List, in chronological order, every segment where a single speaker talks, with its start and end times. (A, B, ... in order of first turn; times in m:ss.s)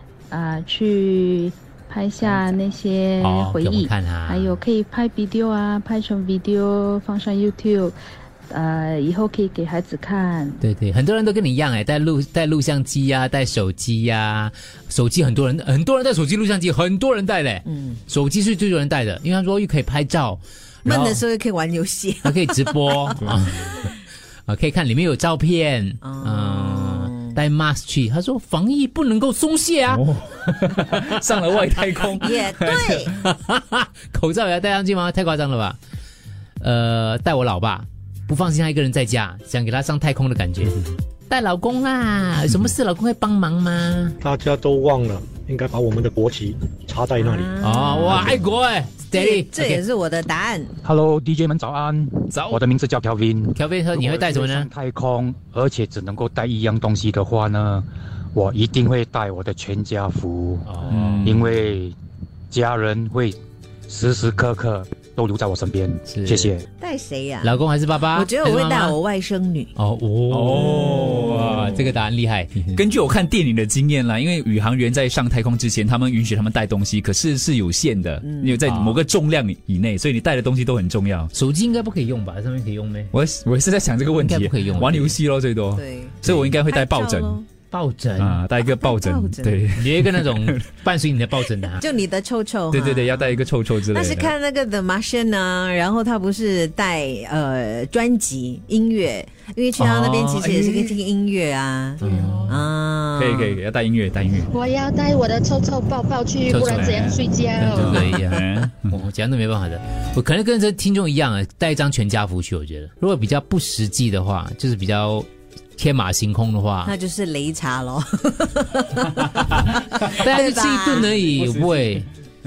0:00.3-0:07.9 A
0:03.2-0:04.6 B
0:08.5-0:10.6 A
0:10.6-0:21.2 B
0:17.7-0:18.0 C
0:20.8-0:23.9 C
0:22.2-0:23.7 B
0:24.5-0:31.1 B
0:26.0-0:27.4 C
0:29.9-0:33.0 D
0:32.2-0:33.2 C
0:33.1-0:35.8 B
0:36.6-0:44.2 B
0:44.2-0:47.5 E
0:47.2-0:48.4 C
0:47.6-0:49.8 B
0:49.1-0:50.8 C
0:50.8-1:00.6 F
0:52.3-0:52.6 D
0:53.5-0:54.7 B
1:00.6-1:01.3 B
1:00.8-1:01.4 D
1:01.2-1:02.0 F
1:02.5-1:03.4 F
1:03.9-1:06.6 F
1:06.1-1:06.5 B
1:06.8-1:09.7 C
1:07.4-1:08.3 B
1:08.4-1:09.0 D
1:09.8-1:12.8 B
1:10.3-1:11.8 D
1:12.7-1:21.3 D
1:18.2-1:18.6 C
1:18.7-1:19.0 B
1:21.3-1:23.1 B
1:23.1-1:27.4 D
1:24.2-1:25.1 B
1:25.7-1:27.5 C
1:27.7-1:28.4 B
1:28.2-1:30.7 D
1:28.6-1:29.6 C
1:29.8-1:31.8 B
1:31.8-1:43.6 C
1:32.7-1:34.3 D
1:39.8-1:40.9 B
1:42.0-1:42.5 B
1:42.0-1:42.6 D
1:43.2-1:44.5 D
1:44.5-1:48.0 G
1:46.5-1:56.9 B
1:46.5-1:47.2 D
1:47.7-1:48.9 D
1:56.8-2:01.1 C
2:00.1-2:02.0 B
2:01.2-2:02.0 D